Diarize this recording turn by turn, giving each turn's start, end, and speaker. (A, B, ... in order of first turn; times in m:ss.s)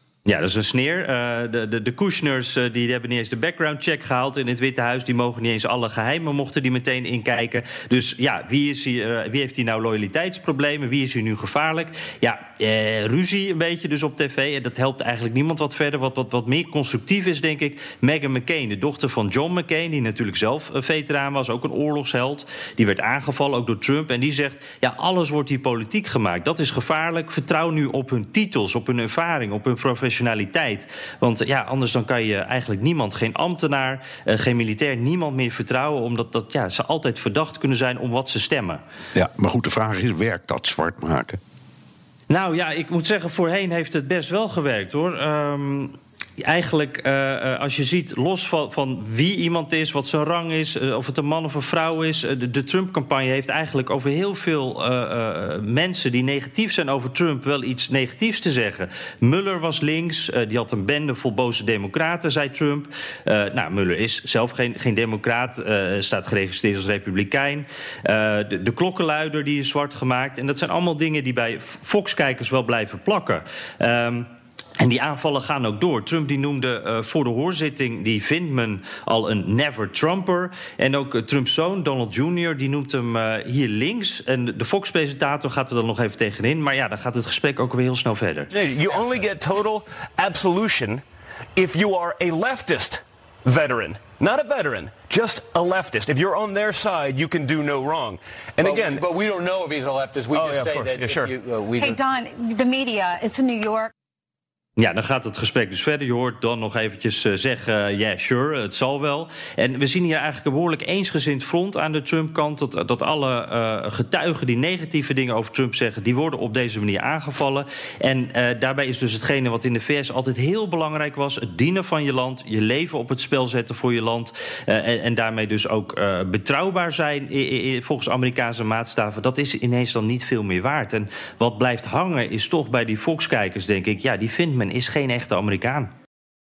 0:00.2-0:38.8 A
0:39.1-0:41.4 B
0:42.3-1:14.3 A
1:14.8-1:28.5 A
1:28.5-1:31.0 C
1:31.6-1:39.1 C
1:38.6-1:42.0 D
1:40.3-1:41.4 C
1:41.8-1:43.9 E
1:44.8-2:15.9 A